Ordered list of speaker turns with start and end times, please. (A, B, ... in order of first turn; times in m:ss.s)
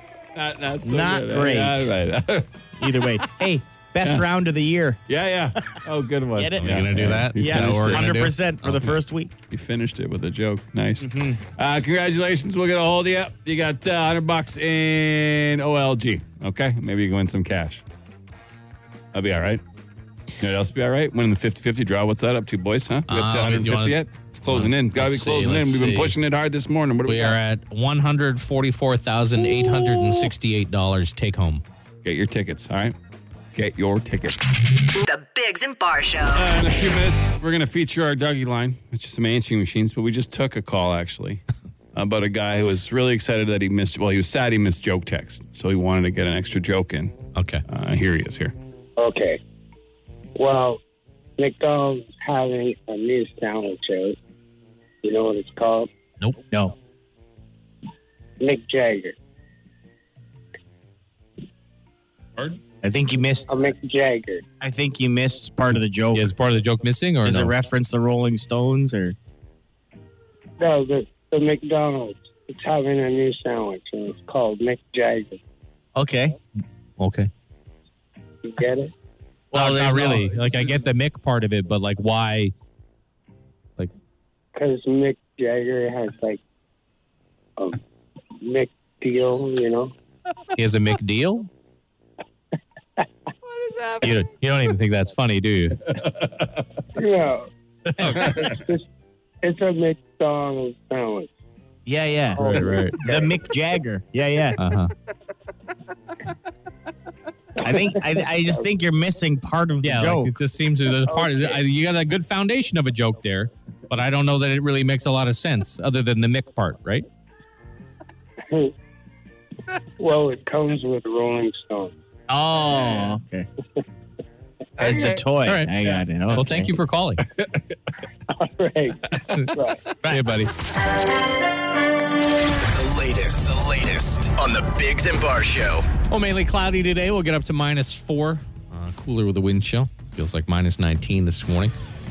0:00.4-0:02.5 A
0:00.8-0:02.0 B
0:02.8-0:05.0 B
0:05.1-0:09.0 A
0:06.3-0:09.3 B
0:06.6-0:08.4 C
0:09.5-0:17.8 A
0:11.0-0:11.4 B
0:19.1-0:19.6 A
0:20.4-0:27.4 A
0:23.1-0:26.1 C
0:27.0-0:31.6 C
0:29.5-0:30.2 A
0:32.0-0:33.0 A
0:33.5-0:34.5 A
0:35.0-0:37.0 D
0:36.3-0:41.4 A
0:41.9-0:47.2 A
0:47.4-0:47.6 C
0:47.7-0:48.6 A
0:49.0-0:49.4 E
0:50.4-0:50.8 E
0:51.4-0:54.2 E
0:55.0-0:55.9 E
0:58.4-0:59.1 E
1:02.8-1:03.6 B
1:03.5-1:04.4 E
1:04.6-1:06.3 B
1:06.1-1:07.6 C
1:07.2-1:09.2 B
1:10.6-1:15.4 E
1:16.0-1:16.4 B
1:17.0-1:17.3 C
1:18.5-1:18.9 E
1:19.5-1:22.5 C
1:19.5-1:20.4 B
1:24.6-1:26.4 E
1:28.4-1:29.9 E
1:30.6-1:31.5 C
1:33.4-1:34.2 A
1:34.0-1:35.8 C
1:36.0-1:36.4 A
1:37.0-1:37.4 E
1:38.0-1:38.6 A
1:38.2-1:38.8 E
1:39.4-1:41.3 E
1:41.9-1:44.6 B
1:42.5-1:43.0 C
1:42.6-1:42.9 A
1:44.6-1:44.9 C
1:47.6-1:50.3 B
1:49.8-1:57.1 C
2:00.0-2:01.9 E
2:02.3-2:03.5 B
2:04.8-2:06.7 B
2:04.8-2:05.2 A
2:05.4-2:05.7 C
2:06.3-2:07.2 C
2:07.4-2:07.8 A
2:08.5-2:09.0 E
2:10.0-2:10.5 C
2:12.7-2:15.9 F
2:16.1-2:21.7 C